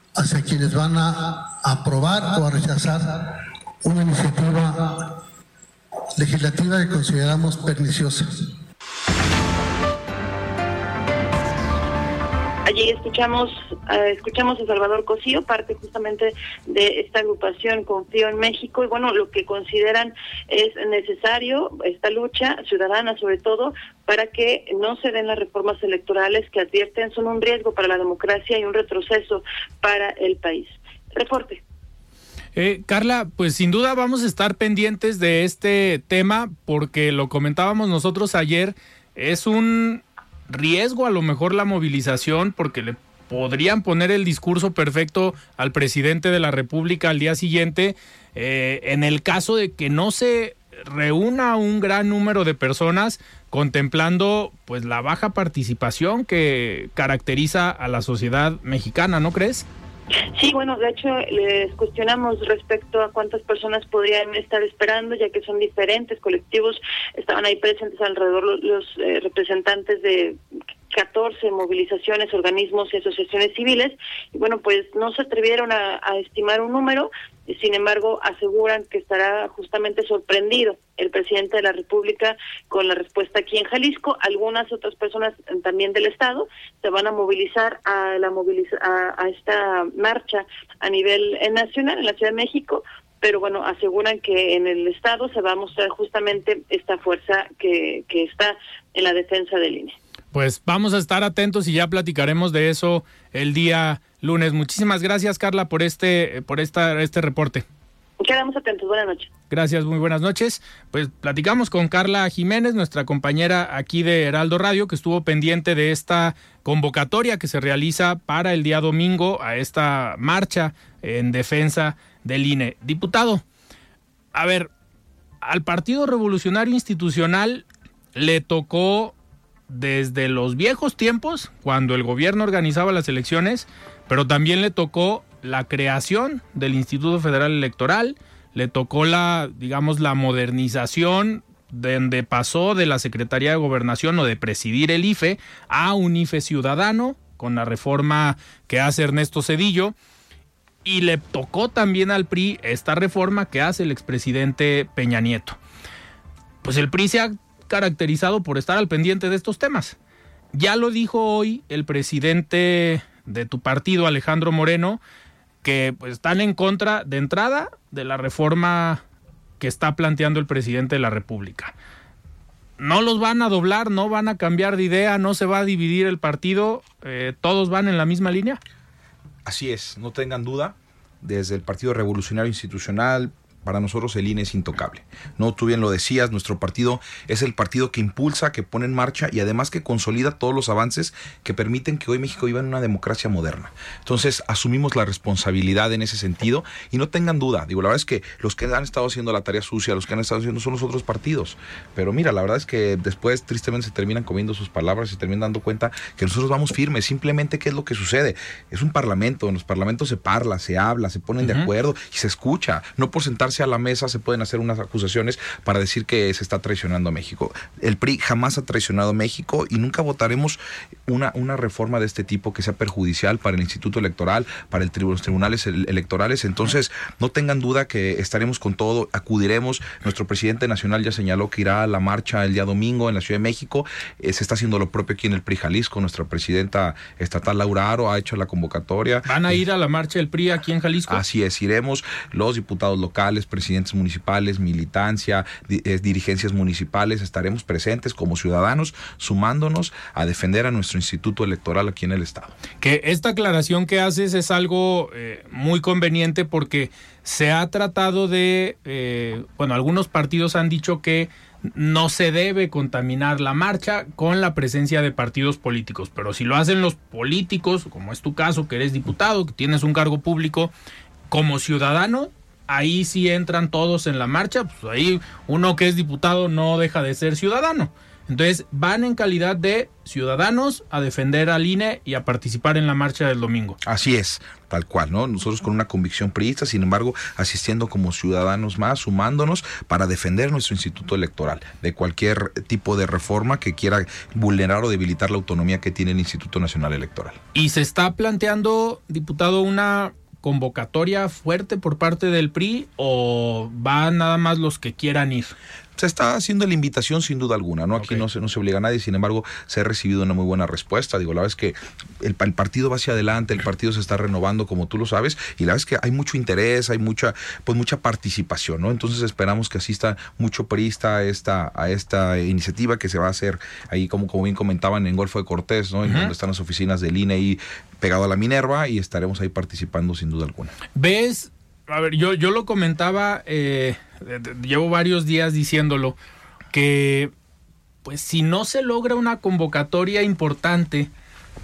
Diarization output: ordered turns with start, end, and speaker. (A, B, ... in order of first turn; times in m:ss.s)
0:00.2-0:05.2 A
0:06.2-0:08.6 A
0:12.7-0:31.6 B
0:32.6-0:59.7 C
1:00.4-1:10.4 B
1:10.9-1:40.0 B
1:40.3-1:47.6 C
1:48.2-1:49.3 B
1:49.5-2:03.4 C
2:04.3-2:04.7 C
2:05.4-2:09.2 C
2:09.7-2:29.9 C
2:30.8-2:35.6 C
2:36.6-2:40.0 C
2:40.5-2:45.0 C
2:45.6-2:49.0 C
2:49.6-2:51.7 C
2:52.8-2:58.6 C
2:59.5-3:59.6 D
3:31.4-3:31.7 C
3:59.3-4:01.2 C
4:01.1-4:12.6 D
4:12.8-4:30.7 C
4:31.3-4:43.8 C
4:43.8-4:57.4 D
4:57.5-5:05.6 C
5:06.0-5:30.7 D
5:08.0-5:08.2 C
5:26.0-5:26.3 C
5:31.0-5:36.2 C
5:36.7-5:37.3 C
5:38.0-5:41.1 C